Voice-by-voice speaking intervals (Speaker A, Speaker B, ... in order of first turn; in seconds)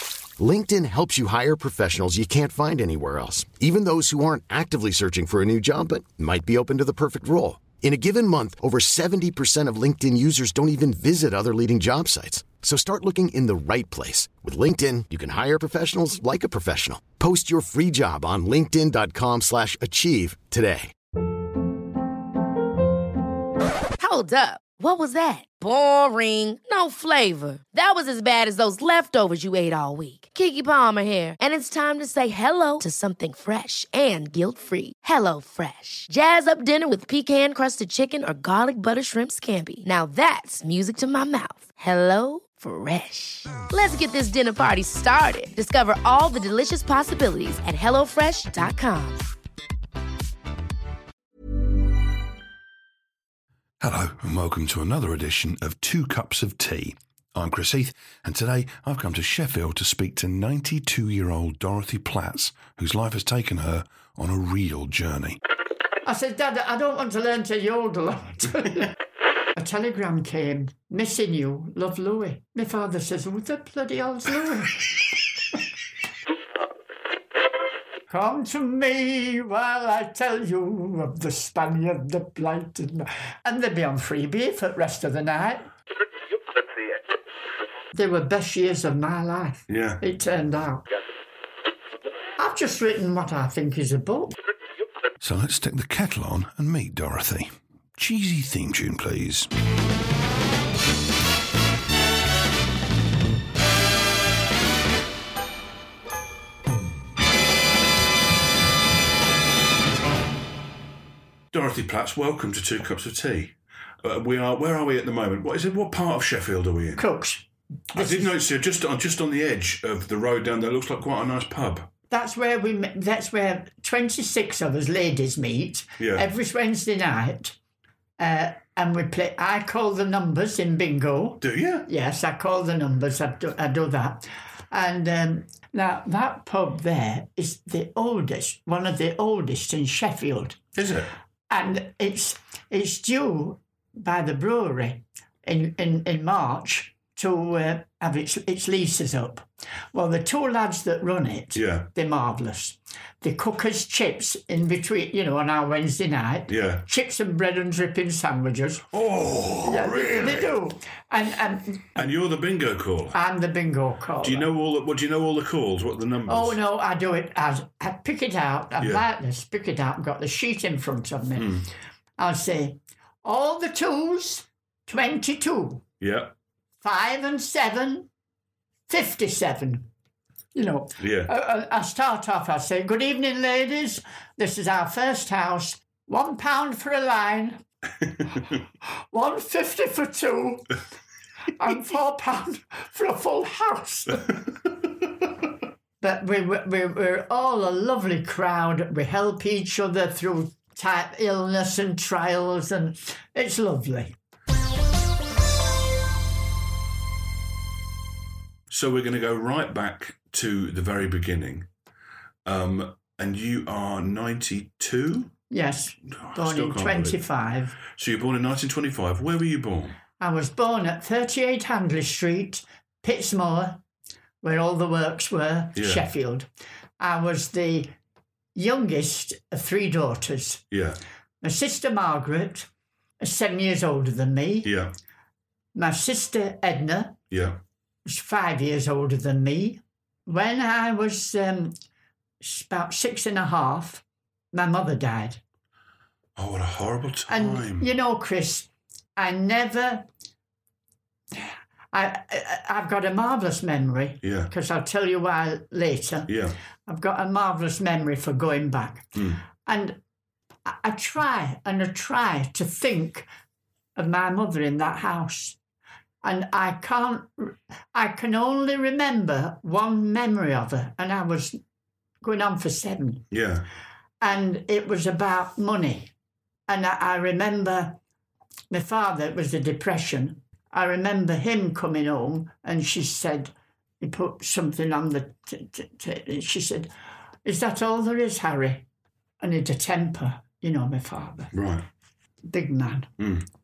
Speaker A: 0.4-20.9
Speaker B: 24.0-49.2
Speaker C: 53.8-65.4, 89.7-90.0, 95.2-99.5, 111.5-117.0, 117.9-121.9, 126.0-126.3, 131.4-131.8, 140.8-141.1, 151.5-151.9, 156.5-156.8, 158.9-160.6, 162.0-163.2, 164.2-166.6, 171.4-171.7, 176.0-176.3, 181.0-181.3, 208.7-211.7, 212.4-215.3, 216.1-217.2, 217.8-220.0, 225.8-226.0, 230.7-231.0, 234.6-234.9, 237.3-237.6, 246.3-247.9, 254.2-254.5, 256.3-256.6, 259.1-259.4, 273.3-273.7, 291.5-291.9, 293.2-293.4
Speaker D: 66.0-68.9, 69.5-75.1, 78.1-85.7, 87.9-90.8, 92.4-94.3, 117.0-118.3, 122.1-127.6, 128.2-140.6, 141.5-158.8, 159.6-162.1, 163.1-164.5, 166.3-171.6, 172.2-175.8, 176.8-178.1, 178.9-179.9, 180.5-187.6, 189.1-190.7, 191.5-194.4, 196.0-204.2, 215.5-217.8, 220.2-223.8, 224.4-226.5, 227.0-227.9, 228.5-230.6, 231.4-232.7, 233.2-234.7, 235.7-237.2, 238.1-241.7, 242.4-245.4, 247.3-250.1, 251.3-256.3, 256.9-260.0, 260.6-263.3, 263.9-265.6, 266.2-271.6, 272.2-273.2, 274.2-276.1, 276.7-278.0, 278.7-286.9, 287.4-288.9, 289.4-291.5, 292.5-293.1